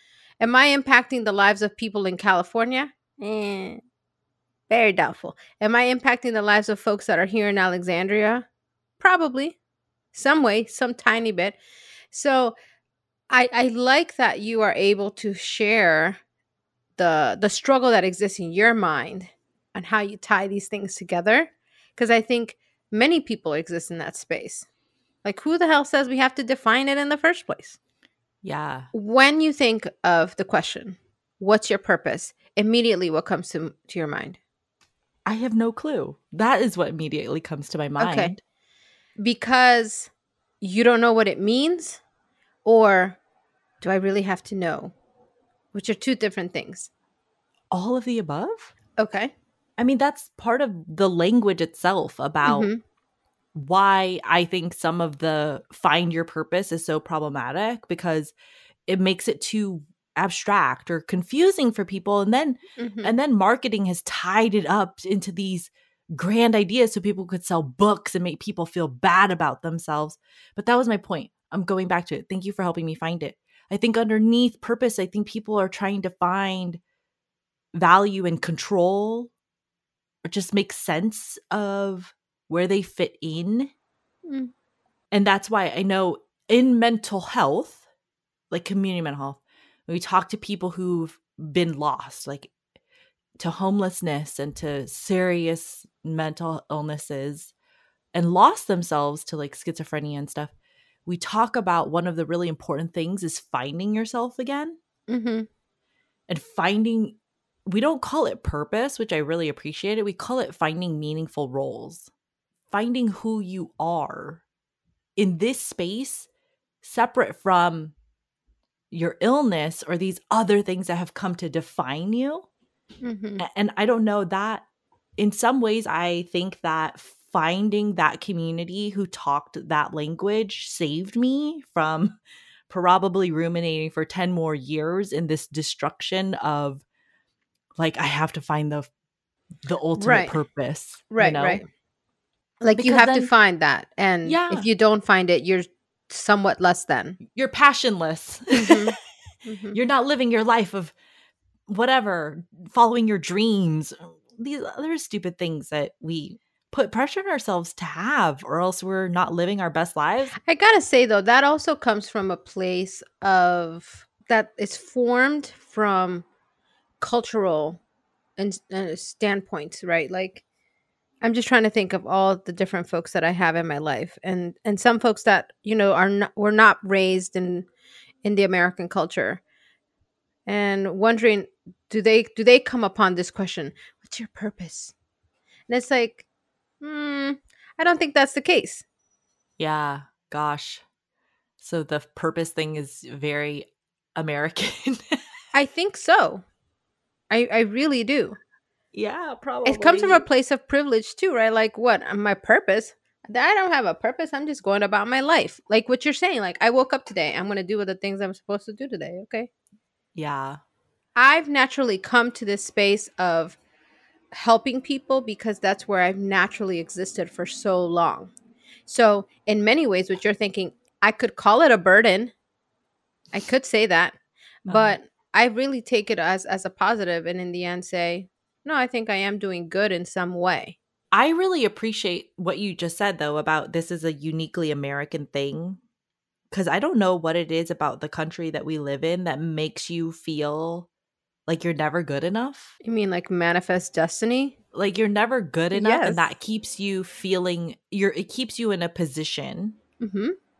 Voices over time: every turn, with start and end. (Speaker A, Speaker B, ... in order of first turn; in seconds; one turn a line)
Speaker A: 0.4-3.8
Speaker A: 4.7-8.5
Speaker A: 9.0-9.6
Speaker A: 10.1-11.6
Speaker A: 12.1-12.6
Speaker A: 13.3-16.2
Speaker A: 17.0-24.6
Speaker A: 25.2-27.8
Speaker B: 28.4-28.9
Speaker A: 28.9-34.4
Speaker B: 35.2-38.4
Speaker A: 38.0-38.3
Speaker A: 39.2-42.0
Speaker A: 42.6-43.2
Speaker A: 43.8-44.9
Speaker A: 45.7-46.9
Speaker B: 47.7-48.7
Speaker A: 49.0-49.3
Speaker B: 49.8-52.7
Speaker A: 52.4-52.8
Speaker B: 53.5-58.3
Speaker B: 58.9-76.8
Speaker A: 62.8-63.1
Speaker B: 77.7-79.3
Speaker B: 80.2-83.7
Speaker A: 84.2-84.5
Speaker B: 85.1-87.8
Speaker B: 88.5-92.5
Speaker B: 93.4-97.5
Speaker B: 98.1-100.5
Speaker B: 101.0-104.8
Speaker A: 105.1-105.5
Speaker B: 106.3-112.1
Speaker B: 112.7-114.4
Speaker B: 115.2-116.3
Speaker B: 116.8-117.9
Speaker B: 118.9-122.5
Speaker A: 123.0-123.4
Speaker B: 123.4-124.6
Speaker B: 125.2-132.2
Speaker B: 132.7-136.8
Speaker B: 137.8-138.9
Speaker B: 139.6-141.6
Speaker A: 139.9-140.4
Speaker A: 141.1-141.7
Speaker A: 142.6-147.2
Speaker B: 142.7-143.3
Speaker B: 144.2-144.7
Speaker B: 147.3-148.9
Speaker A: 148.5-149.8
Speaker B: 149.7-150.9
Speaker B: 151.7-160.3
Speaker A: 160.4-166.2
Speaker A: 167.0-167.8
Speaker A: 168.4-170.4
Speaker A: 171.2-177.7
Speaker A: 178.2-179.4
Speaker A: 180.4-184.9
Speaker A: 185.7-186.2
Speaker A: 186.8-188.8
Speaker B: 189.6-190.8
Speaker B: 191.6-195.0
Speaker A: 195.5-196.4
Speaker A: 197.3-198.4
Speaker B: 198.9-200.2
Speaker A: 199.6-209.5
Speaker B: 210.1-210.6
Speaker A: 211.1-213.6
Speaker A: 214.3-218.3
Speaker A: 218.9-222.3
Speaker A: 223.3-224.2
Speaker B: 224.7-225.0
Speaker A: 224.7-230.8
Speaker B: 231.1-235.8
Speaker B: 236.5-240.9
Speaker B: 241.5-242.7
Speaker A: 242.8-244.5
Speaker B: 244.7-249.8
Speaker A: 245.7-246.3
Speaker A: 250.0-250.3